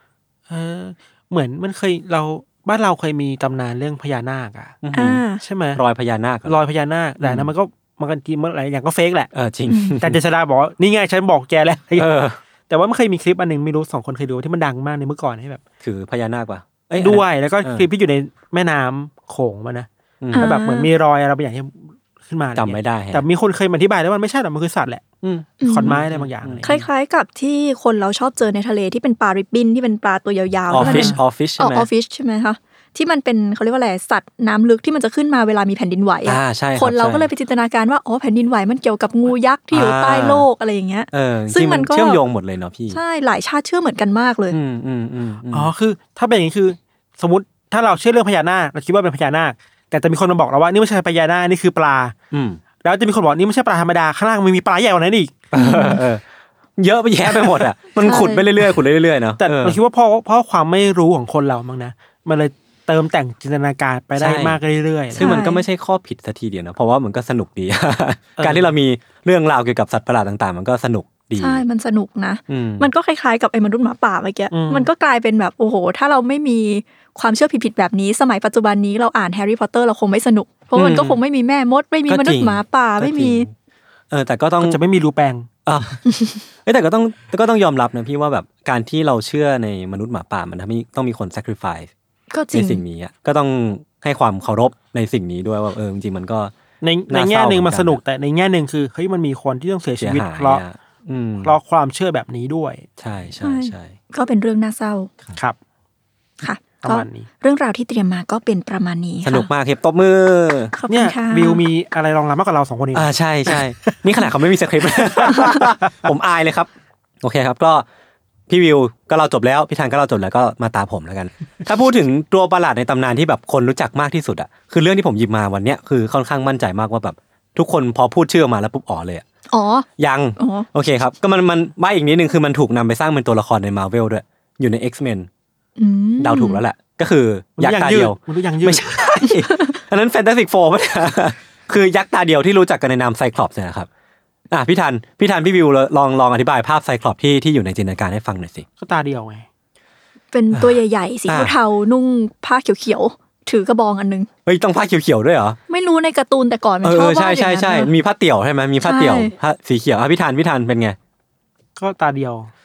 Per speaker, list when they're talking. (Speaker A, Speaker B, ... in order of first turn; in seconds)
Speaker A: 0.5-4.8, 5.4-5.8, 6.5-9.3, 10.0-12.2, 12.7-15.6, 17.0-25.0, 25.6-26.7, 30.8-31.2, 45.5-52.1, 52.8-55.4, 59.4-65.4, 68.4-68.7, 74.5-74.9, 84.6-85.5, 96.8-100.6, 101.4-102.9, 106.8-107.3, 110.9-114.0, 115.0-115.7, 137.6-138.9, 148.8-149.5, 161.8-162.5
Speaker B: 4.8-5.2, 5.7-6.5, 7.2-7.5, 9.3-10.2, 11.9-12.4, 15.8-17.9, 20.2-20.5, 22.6-23.2, 25.2-26.9, 30.7-31.9, 36.2-37.3, 39.7-40.5, 41.1-43.0, 44.5-45.7, 52.3-52.6, 55.5-56.2, 56.8-59.8, 64.2-64.6, 65.2-71.6, 72.5-72.9, 80.8-81.2, 82.1-83.5, 84.1-84.8, 85.7-86.0, 86.6-91.9, 92.5-96.5, 97.1-98.0, 100.0-101.5, 103.0-103.9, 109.2-110.7, 112.9-116.7, 117.2-117.8, 118.5-129.2, 130.0-135.3, 136.2-143.9, 144.5-148.7, 150.5-151.5, 154.4-155.6, 156.8-161.0
Speaker C: 4.9-5.4, 9.7-10.0, 20.3-20.9, 25.6-26.0, 26.6-42.2, 42.9-44.6, 55.5-56.0, 58.0-58.4, 65.2-65.6, 71.4-83.5, 86.1-86.4, 92.3-92.8, 103.4-105.1, 106.4-109.5, 110.7-111.6, 129.5-129.9, 130.4-130.7, 135.8-136.6, 150.3-154.3, 155.7-157.9, 158.8-159.3